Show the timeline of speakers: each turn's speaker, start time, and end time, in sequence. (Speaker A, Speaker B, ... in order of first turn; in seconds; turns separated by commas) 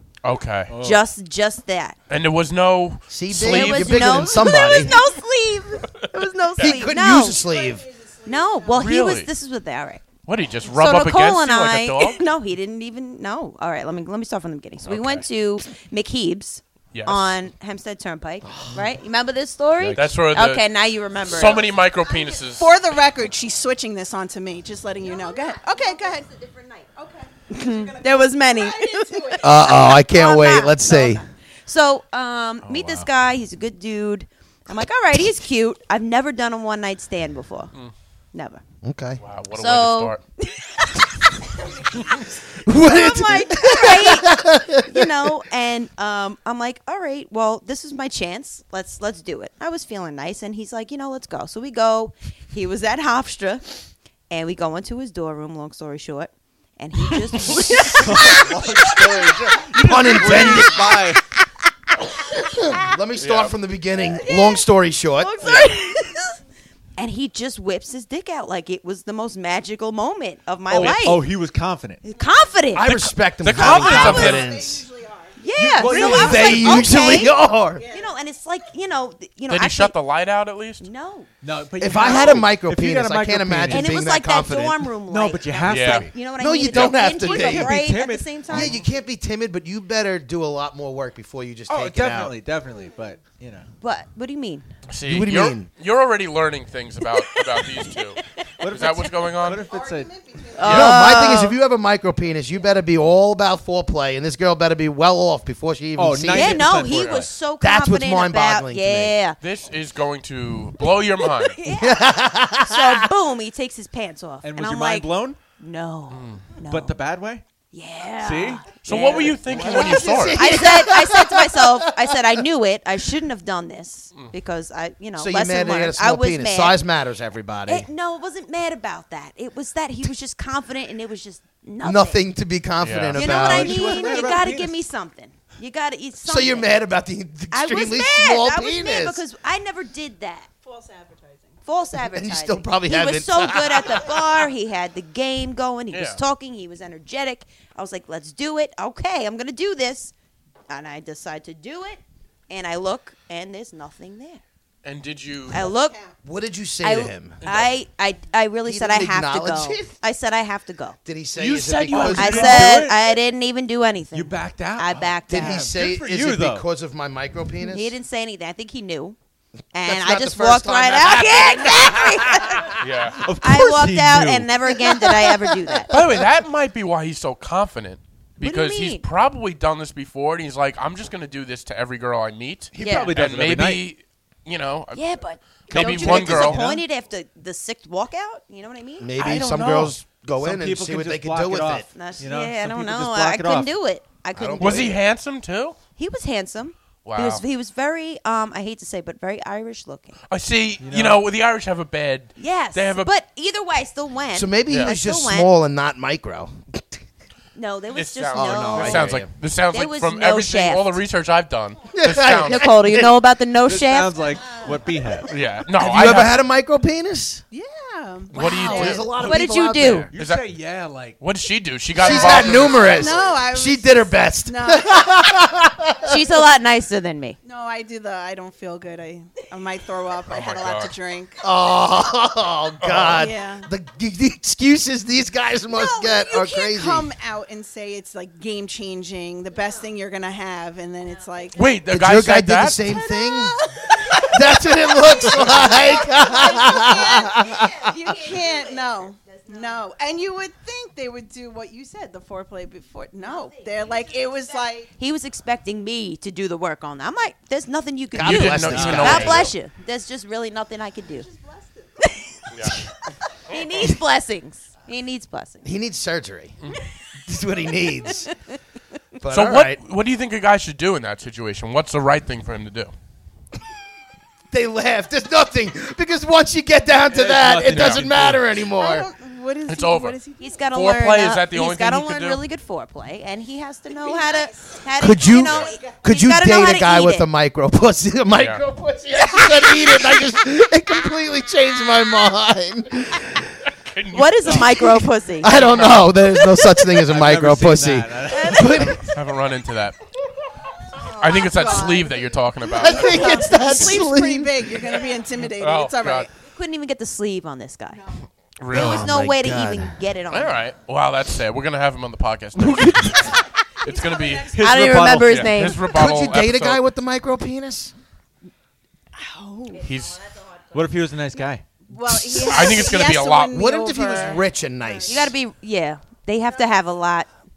Speaker A: 0.2-0.7, Speaker B: 0.7-1.1, Speaker C: 0.8-2.0, Speaker A: 2.1-4.3, Speaker D: 3.1-5.0, Speaker C: 3.4-7.4, Speaker E: 4.4-5.2, Speaker D: 6.6-7.9, Speaker E: 6.9-8.8, Speaker C: 8.2-10.0, Speaker A: 8.8-9.3, Speaker A: 10.2-12.2, Speaker C: 10.6-21.7, Speaker A: 14.9-15.2, Speaker A: 16.9-17.4, Speaker B: 19.8-20.0, Speaker A: 19.9-20.6, Speaker A: 21.2-22.8, Speaker E: 22.1-26.3, Speaker C: 25.0-26.8, Speaker E: 26.8-29.8, Speaker C: 27.5-37.7, Speaker D: 29.4-31.2, Speaker B: 32.6-33.1, Speaker C: 38.3-38.6, Speaker D: 38.8-39.2, Speaker A: 39.2-40.2, Speaker C: 39.5-53.6, Speaker D: 42.6-45.1, Speaker C: 54.3-61.0, Speaker B: 57.3-61.2, Speaker D: 59.7-61.0, Speaker D: 62.4-65.5, Speaker A: 63.2-63.5, Speaker E: 64.1-64.6, Speaker C: 65.2-66.3, Speaker A: 65.4-65.7, Speaker C: 67.0-71.2, Speaker B: 70.7-72.0, Speaker C: 72.0-72.9, Speaker D: 72.7-74.8, Speaker A: 72.8-74.5, Speaker E: 73.5-75.4, Speaker C: 75.4-79.9, Speaker B: 75.5-76.9, Speaker A: 75.9-76.3, Speaker D: 76.0-77.8, Speaker E: 77.7-78.1, Speaker A: 79.5-80.8, Speaker C: 80.8-81.3, Speaker B: 81.4-84.0, Speaker D: 81.8-84.9, Speaker C: 81.9-82.5, Speaker C: 83.7-88.8, Speaker B: 85.0-86.2, Speaker A: 85.7-86.1, Speaker D: 86.2-87.8, Speaker B: 87.2-88.8, Speaker D: 88.5-92.3, Speaker B: 91.7-93.7, Speaker C: 93.8-94.7, Speaker A: 94.9-99.7, Speaker D: 95.0-95.7, Speaker C: 97.2-98.4, Speaker B: 98.6-100.1, Speaker E: 99.6-100.9, Speaker C: 100.5-101.6, Speaker A: 100.6-101.0, Speaker D: 100.6-106.8, Speaker B: 106.0-107.3, Speaker C: 106.3-109.4, Speaker D: 107.6-109.1, Speaker A: 109.4-111.6, Speaker C: 111.4-117.0, Speaker D: 111.7-113.1, Speaker B: 114.4-115.4, Speaker A: 116.1-116.4, Speaker B: 116.7-117.4, Speaker C: 117.7-126.8, Speaker B: 118.2-119.9, Speaker A: 118.8-120.4, Speaker D: 119.5-122.2, Speaker D: 125.2-127.9, Speaker C: 127.7-132.2, Speaker D: 131.8-134.1, Speaker A: 132.8-133.3, Speaker C: 133.1-136.8, Speaker B: 133.2-134.8, Speaker D: 136.2-139.2, Speaker C: 137.5-140.5, Speaker E: 140.6-141.6, Speaker C: 141.6-150.1, Speaker D: 141.9-144.2, Speaker A: 145.9-146.2, Speaker C: 150.7-154.4, Speaker A: 154.8-155.6, Speaker C: 155.5-155.9, Speaker E: 155.5-156.1, Speaker D: 156.2-157.4, Speaker C: 156.8-161.0, Speaker A: 157.4-157.7, Speaker D: 158.7-159.9, Speaker D: 161.0-162.6, Speaker A: 161.3-162.8, Speaker B: 162.0-163.0, Speaker C: 162.1-165.7, Speaker B: 164.1-166.7, Speaker D: 165.3-167.9, Speaker C: 167.7-169.2, Speaker C: 169.7-172.7, Speaker D: 169.8-172.8, Speaker A: 172.8-173.2, Speaker B: 173.2-174.5, Speaker C: 173.4-175.9, Speaker D: 174.9-176.0, Speaker A: 175.9-185.1, Speaker C: 178.4-179.0, Speaker B: 182.7-183.8, Speaker C: 182.8-183.1, Speaker C: 184.9-189.1, Speaker A: 185.7-186.6, Speaker D: 185.7-186.8, Speaker D: 189.0-191.9, Speaker A: 189.2-189.9, Speaker B: 190.4-193.7, Speaker C: 191.9-194.9, Speaker D: 194.3-195.0, Speaker A: 194.6-195.8, Speaker C: 195.9-200.2, Speaker A: 197.0-197.4, Speaker A: 200.3-203.1, Speaker B: 200.8-201.2, Speaker C: 202.4-205.5, Speaker D: 204.3-207.0, Speaker C: 207.5-209.2, Speaker A: 207.9-212.8, Speaker D: 208.3-209.3, Speaker C: 209.7-211.0, Speaker D: 211.9-213.1, Speaker C: 212.4-214.2, Speaker B: 213.6-215.3, Speaker A: 215.3-216.4, Speaker D: 215.8-217.4, Speaker E: 217.5-219.1, Speaker A: 218.3-219.1, Speaker D: 218.6-220.1, Speaker C: 219.2-220.1, Speaker B: 220.1-221.2, Speaker A: 220.2-220.4, Speaker A: 221.2-223.1, Speaker D: 222.0-226.2, Speaker E: 222.1-225.2, Speaker C: 226.0-227.4, Speaker E: 227.4-231.4, Speaker A: 230.3-230.9, Speaker D: 231.4-237.1, Speaker A: 232.8-233.3, Speaker E: 233.2-233.7, Speaker E: 235.7-241.6, Speaker A: 241.5-242.8, Speaker D: 241.9-243.6, Speaker E: 242.9-254.9, Speaker D: 244.1-247.9, Speaker C: 245.5-248.8, Speaker C: 249.4-249.7, Speaker C: 254.9-261.3, Speaker D: 258.1-259.5, Speaker A: 258.2-259.5, Speaker B: 258.7-259.3, Speaker E: 261.2-261.9, Speaker C: 262.2-262.8, Speaker A: 262.5-262.8, Speaker C: 263.4-265.6, Speaker D: 265.6-266.6, Speaker D: 267.2-268.3, Speaker D: 269.2-269.8, Speaker A: 269.3-272.9, Speaker D: 274.5-279.1, Speaker B: 277.1-278.5, Speaker A: 277.7-278.0, Speaker E: 278.7-280.6, Speaker A: 279.7-280.2, Speaker C: 280.4-287.3, Speaker A: 280.7-282.4, Speaker E: 283.9-285.9, Speaker D: 285.0-293.6, Speaker A: 288.3-288.6, Speaker A: 293.7-294.8, Speaker C: 294.1-295.6, Speaker D: 294.5-294.8, Speaker D: 295.4-299.1, Speaker A: 295.4-296.1, Speaker B: 297.0-298.9, Speaker C: 298.3-298.9, Speaker A: 298.8-300.0, Speaker E: 300.9-306.3, Speaker A: 301.2-303.5, Speaker D: 302.8-304.8, Speaker A: 305.6-306.3, Speaker C: 306.4-308.0, Speaker E: 307.9-308.2, Speaker A: 308.6-309.1, Speaker D: 308.7-309.9, Speaker C: 308.7-310.6, Speaker A: 310.3-314.6, Speaker C: 312.7-313.3, Speaker E: 313.9-314.5, Speaker B: 314.5-315.5, Speaker C: 314.5-315.8, Speaker A: 315.2-316.8, Speaker D: 315.9-317.9, Speaker E: 319.1-319.9, Speaker A: 319.8-320.2, Speaker B: 320.7-321.6, Speaker E: 321.9-325.0, Speaker A: 322.3-323.6, Speaker D: 323.5-325.3, Speaker C: 325.1-327.3